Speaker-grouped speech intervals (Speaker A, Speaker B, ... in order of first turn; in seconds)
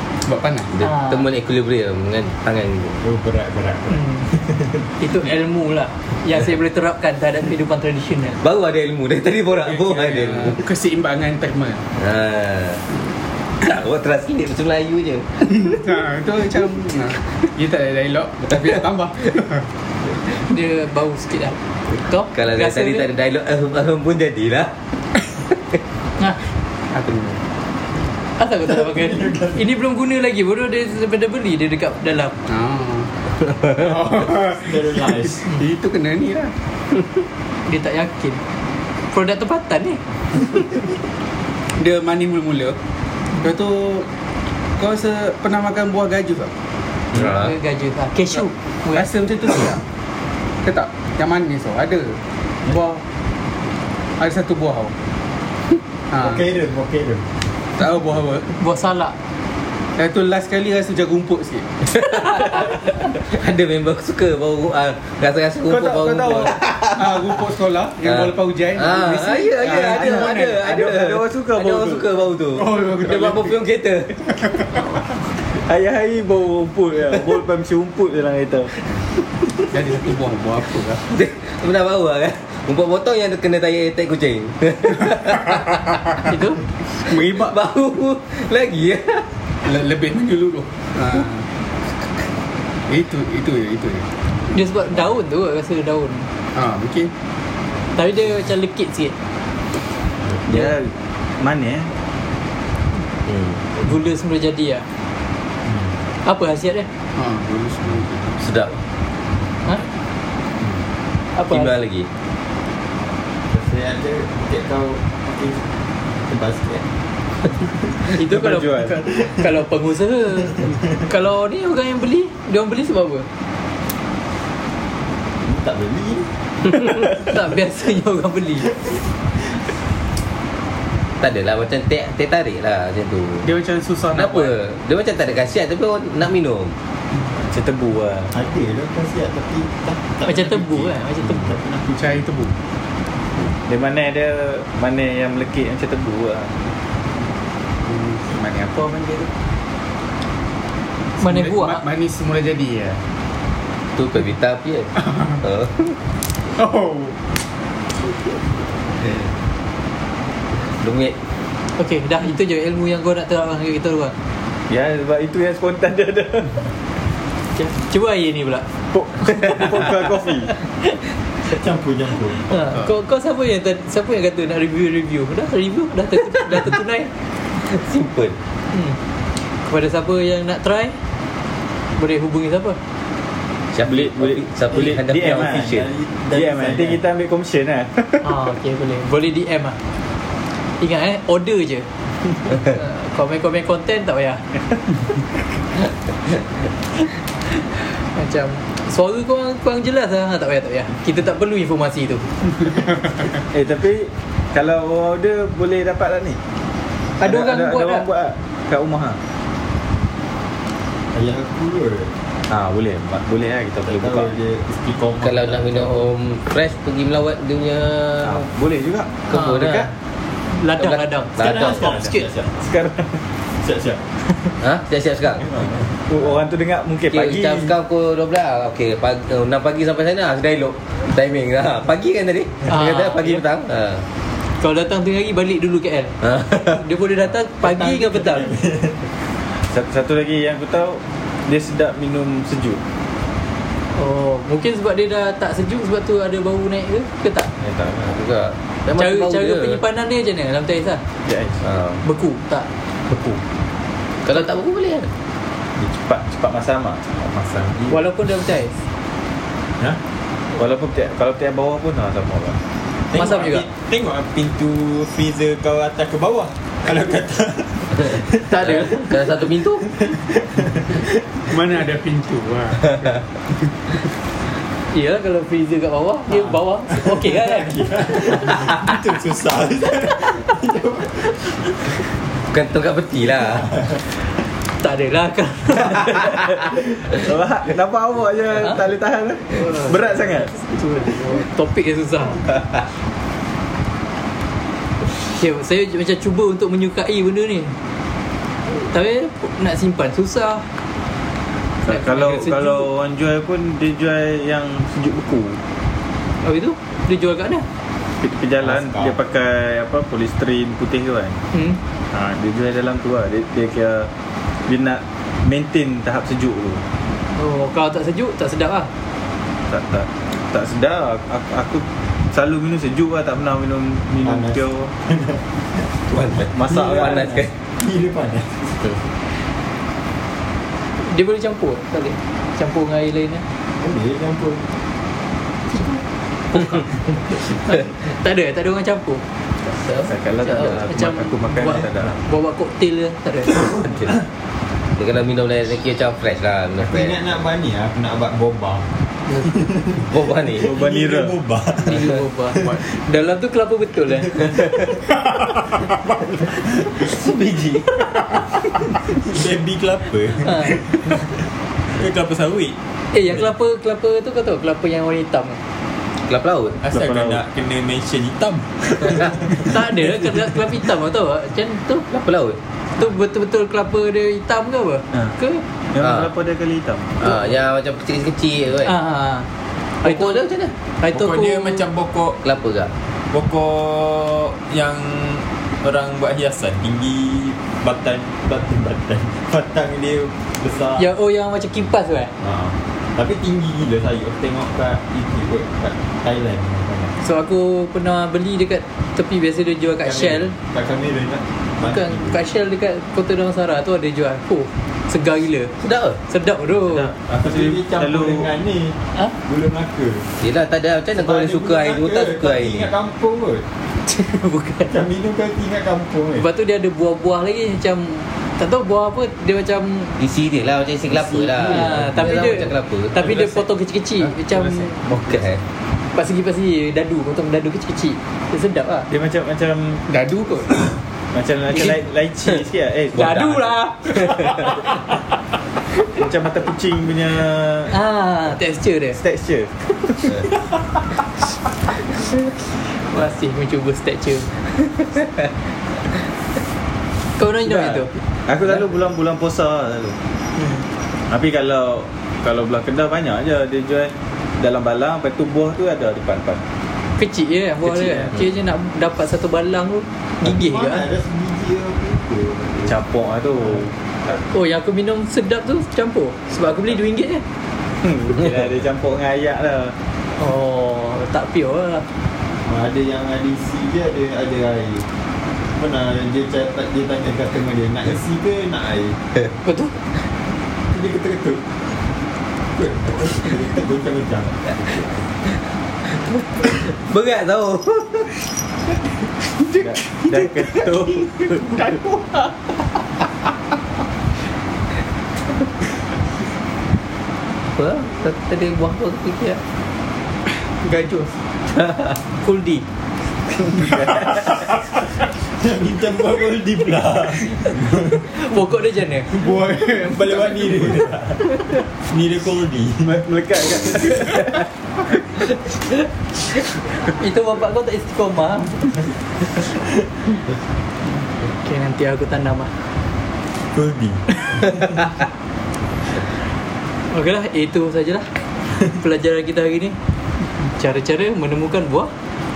Speaker A: 0.2-0.7, 9.6-11.8, 15.4-19.6, 26.9-27.4, 32.5-33.1, 33.6-36.5, 41.8-42.8, 43.4-44.1, 44.8-46.5, 48.9-49.8, 50.6-53.0, 54.2-54.9, 56.1-56.4, 57.8-58.6, 60.0-61.7, 65.7-70.6, 72.5-73.6, 79.7-81.0, 87.0-87.5, 89.6-91.5, 92.9-94.1, 96.5-97.1, 107.2-108.4, 133.4-134.6, 142.0-142.6, 147.8-149.3, 151.2-153.0, 156.6-157.1, 271.5-273.2, 421.6-422.0, 423.2-423.5, 424.2-425.0, 430.1-430.9, 489.6-492.5, 500.8-501.4, 503.9-504.2, 509.3-511.0, 513.6-514.6
Speaker B: 0.7-3.0, 8.4-10.6, 12.0-12.9, 13.6-15.5, 22.3-24.7, 47.1-47.5, 61.9-67.2, 68.0-74.2, 81.1-86.0, 87.1-89.3, 103.3-103.6, 108.4-108.8, 111.5-112.1, 131.2-133.5, 134.1-136.7, 154.0-155.9, 160.8-161.2, 177.7-178.4, 183.7-185.9, 215.2-218.4, 219.3-219.9, 220.8-222.1, 224.6-225.5, 227.1-234.1, 236.2-236.8, 248.1-249.8, 251.6-252.0, 254.2-255.1, 268.6-269.9, 282.5-283.8, 326.1-327.5, 343.8-344.1, 345.0-347.2, 350.1-350.7, 357.0-358.4, 366.3-366.8, 372.1-372.6, 376.0-376.3, 377.2-379.0, 380.0-380.7, 382.4-382.9, 405.8-406.2, 410.4-412.9, 420.2-423.2, 425.1-425.6, 433.2-433.5, 486.1-488.4, 497.8-499.6, 501.8-502.2
Speaker C: 0.8-1.3, 3.9-4.3, 5.0-8.4, 20.5-23.1, 28.4-32.4, 37.7-38.4, 39.1-40.0, 47.1-49.1, 58.6-59.1, 86.2-86.6, 94.5-96.3, 98.0-99.1, 103.8-104.8, 106.2-106.9, 111.4-111.7, 118.2-123.3, 126.9-128.7, 140.2-141.5, 151.2-151.8, 161.8-164.1, 167.6-168.7, 172.5-177.1, 178.7-179.0, 179.6-181.0, 182.0-182.8, 188.2-189.8, 190.8-191.9, 192.5-194.4, 198.0-202.3, 207.2-208.1, 219.3-219.9, 220.5-221.9, 232.7-233.4, 234.6-236.1, 236.7-238.5, 243.9-247.5, 249.0-251.0, 252.0-252.7, 257.9-258.8, 263.1-263.6, 268.5-269.2, 274.9-278.6, 284.8-286.5, 289.5-292.5, 295.3-297.8, 298.7-300.6, 301.9-302.9, 306.4-307.6, 311.5-311.8, 317.4-318.9, 331.0-333.4, 335.7-336.0, 336.5-339.2, 340.5-343.6, 349.3-349.6, 351.8-354.6, 360.4-360.8, 363.1-365.6, 369.6-372.1, 373.0-375.6, 378.8-379.5, 380.0-380.4, 381.0-381.9, 391.0-392.3, 397.2-400.5, 401.9-405.7, 406.3-407.1, 414.1-414.9, 416.4-420.2, 421.6-424.9, 426.1-429.1, 433.1-434.7, 437.9-439.2, 443.1-444.5, 447.4-448.1, 457.2-461.1, 464.5-467.4, 470.4-472.1, 479.6-479.9, 502.4-502.8, 508.1-509.4, 517.1-519.0, 521.5-522.7, 524.5-524.7, 527.1-530.0, 530.6-532.1
Speaker D: 3.0-4.9, 28.9-29.6, 34.5-35.4, 56.2-57.3, 105.7-105.9, 113.5-115.7, 116.2-116.9, 119.0-119.5, 125.4-126.3, 138.3-142.2, 171.4-172.6, 184.8-187.0, 211.1-212.1, 213.8-216.1, 221.4-222.5, 223.6-224.6, 225.4-226.2, 237.6-239.0, 263.1-268.9, 269.8-271.2, 277.6-281.7, 283.6-284.0, 308.6-309.1, 324.2-325.4, 326.7-328.9, 333.8-334.6, 343.8-344.1, 346.8-348.9, 349.4-350.1, 350.6-352.8, 359.1-361.4, 361.9-362.8, 366.8-370.2, 381.1-382.4, 383.3-391.1, 392.4-397.1, 400.0-402.4, 407.3-410.3, 411.2-413.6, 414.9-416.4, 460.4-463.0, 472.6-475.1, 475.7-479.2, 480.9-481.7, 482.8-485.1, 504.3-504.6, 505.6-508.2, 510.1-513.2, 523.7-524.2
Speaker E: 69.9-72.1, 75.5-78.7, 100.5-101.9, 118.2-119.0, 137.4-138.3, 143.6-146.5, 164.7-166.6, 168.9-170.5, 183.8-185.8, 186.3-188.2, 203.5-206.4, 207.2-209.2, 212.5-214.3, 218.2-219.2, 222.6-223.2, 226.1-227.7, 239.7-242.8, 247.6-248.2, 251.2-251.6, 253.1-253.4, 255.8-257.9, 260.6-262.6, 286.7-290.5, 301.8-305.6, 308.2-311.4, 312.1-314.1, 314.7-316.8, 319.7-324.9, 326.5-327.5, 340.0-342.2, 350.6-351.4, 366.9-367.4, 375.9-377.3, 406.8-408.5, 429.1-430.0, 431.3-433.6, 436.1-437.9, 439.1-439.7, 447.6-450.2, 451.3-456.6, 457.9-458.3, 462.9-463.9, 468.0-470.0, 489.8-491.1, 513.2-514.6